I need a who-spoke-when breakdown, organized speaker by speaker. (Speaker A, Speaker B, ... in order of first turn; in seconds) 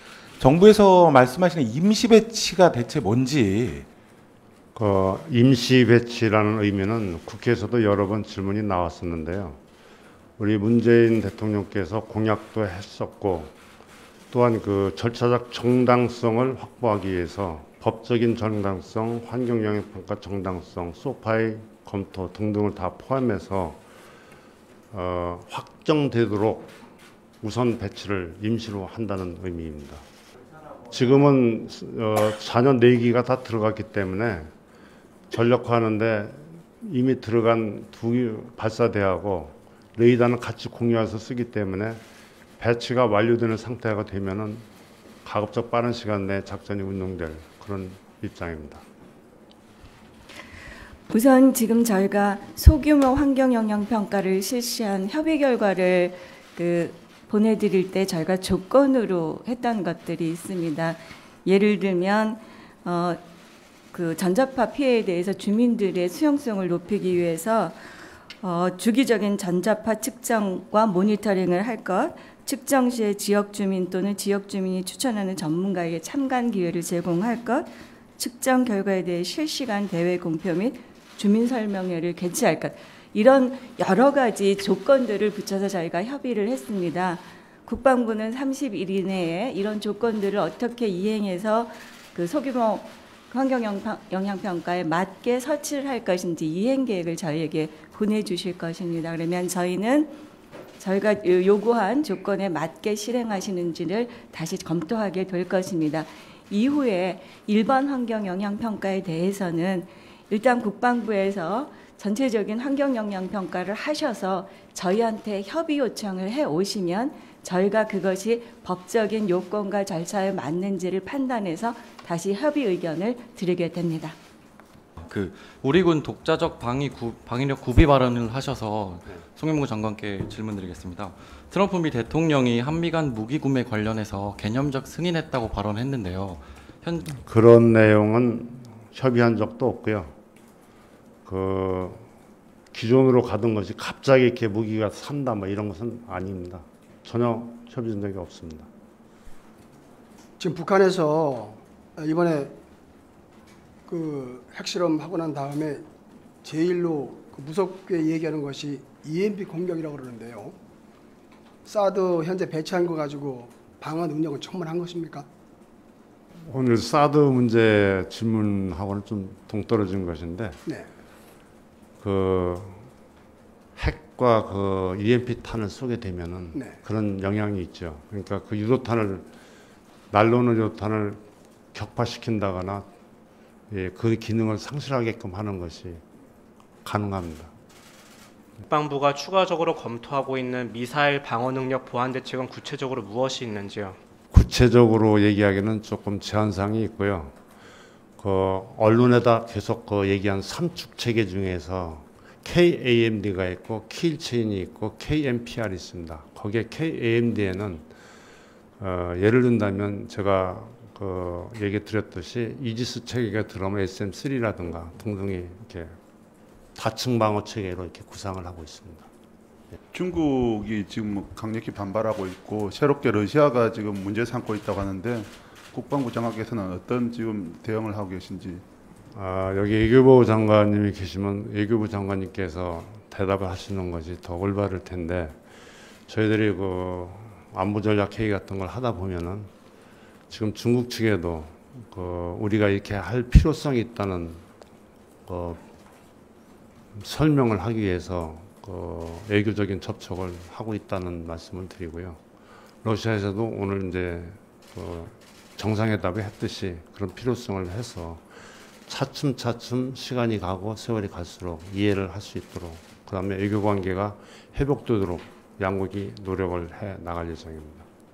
Speaker A: 0.4-3.9
Speaker B: 4.8-9.6, 10.4-13.6, 14.3-23.8, 24.9-26.7, 27.4-30.0, 30.9-34.5, 35.3-42.0, 42.6-44.6, 45.2-48.8, 137.3-140.1, 141.3-142.1, 142.7-148.7, 166.5-170.6, 172.0-172.9, 173.8-179.2, 180.1-181.2, 181.7-182.9, 183.7-186.0, 186.8-187.5, 194.3-197.3, 198.2-207.9, 208.8-215.9, 216.8-219.1, 229.1-235.4, 236.1-239.5, 240.3-244.4, 245.3-245.6, 247.0-252.2, 252.8-258.2, 258.9-267.8
Speaker C: 51.1-63.2, 63.9-67.8, 68.4-100.1, 100.8-124.2
Speaker D: 125.0-137.2
Speaker E: 150.4-152.5, 153.9-155.8, 156.4-160.6, 161.7-165.3
Speaker F: 188.7-194.0
Speaker G: 219.9-228.6